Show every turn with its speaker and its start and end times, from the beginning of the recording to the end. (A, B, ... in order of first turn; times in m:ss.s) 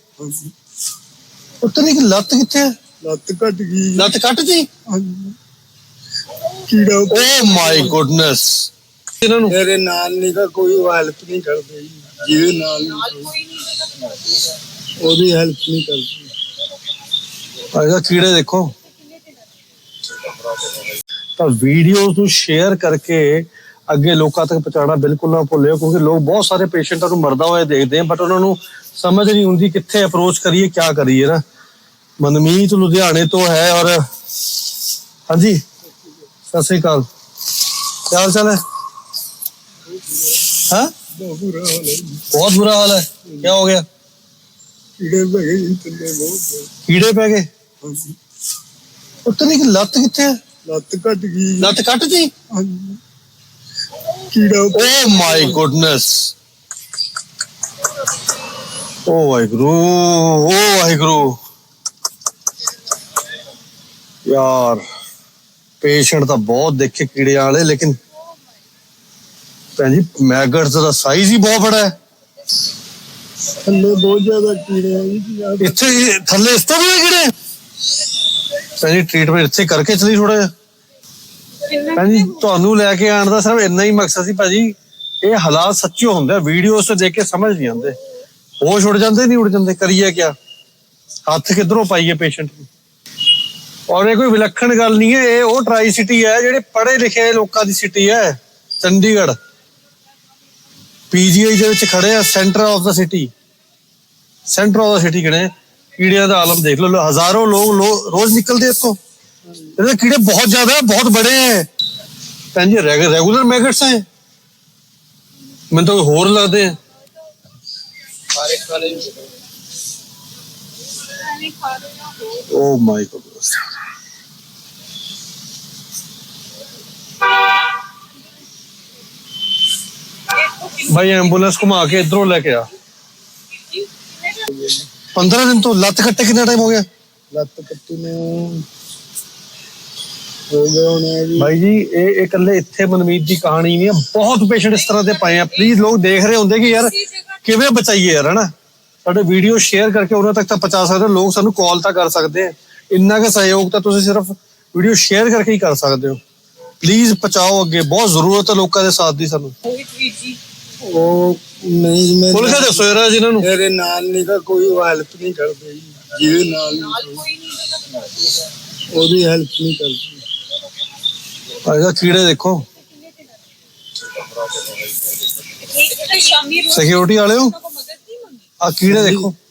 0:00.2-0:00.5 A
0:01.6-0:02.7 B
0:03.0-0:04.1 A
0:04.0-0:04.7 B
0:04.9-0:05.4 A
0:06.7-0:08.0 A
0:07.1-0:08.7 B
0:09.2-0:09.5 B
0:09.5-0:13.4 A
0:13.5-0:14.2 C
0:15.0-0:16.3 A
0:17.7-0:18.8 B
0:21.4-0:31.4 B
0:32.2-0:34.0 B
0:35.3-0:35.6 B
0:36.5-0:37.1 B
0:38.1-0:38.6 B
0:39.9-0:40.5 A
0:41.1-0:42.3 A
0:42.3-0:43.8 B
0:43.2-0:43.5 A
0:45.0-0:46.7 A
0:46.9-0:47.5 B
0:47.8-0:48.2 A
0:49.2-0:50.4 B
0:50.7-0:51.8 A
0:51.6-0:52.3 B
0:52.5-0:53.0 A
0:54.3-0:55.6 A
0:54.7-0:56.3 B
0:59.1-1:01.4 B
1:04.2-1:04.8 B
1:05.8-1:08.0 B
1:09.8-1:11.9 B
1:13.6-1:16.1 A
1:15.6-1:17.3 B
1:18.8-1:20.5 B
1:21.9-1:28.0 B
1:28.6-1:30.4 B
1:31.3-1:32.7 B
1:33.9-1:39.4 B
1:41.1-1:43.3 B
1:44.5-1:49.0 B
1:49.8-1:51.7 B
1:52.6-1:54.1 B
1:55.7-1:56.8 B
2:01.2-2:02.3 C
2:02.3-2:03.7 B
2:10.7-2:12.7 B
2:14.5-2:14.9 A
2:15.1-2:16.9 B
2:17.3-2:18.7 A
2:20.5-2:21.5 A
2:21.4-2:28.5 B
2:29.0-2:36.2 B
2:36.8-2:39.6 B
2:39.7-2:40.4 C
2:40.8-2:47.3 A
2:42.3-2:43.5 B
2:47.3-2:48.3 C
2:48.9-2:50.2 A
2:51.6-2:52.7 B
2:52.9-2:53.2 C
2:55.6-2:56.7 C
2:56.7-2:57.6 B
2:57.6-2:58.4 C
2:58.6-2:59.4 B
2:58.9-2:59.3 A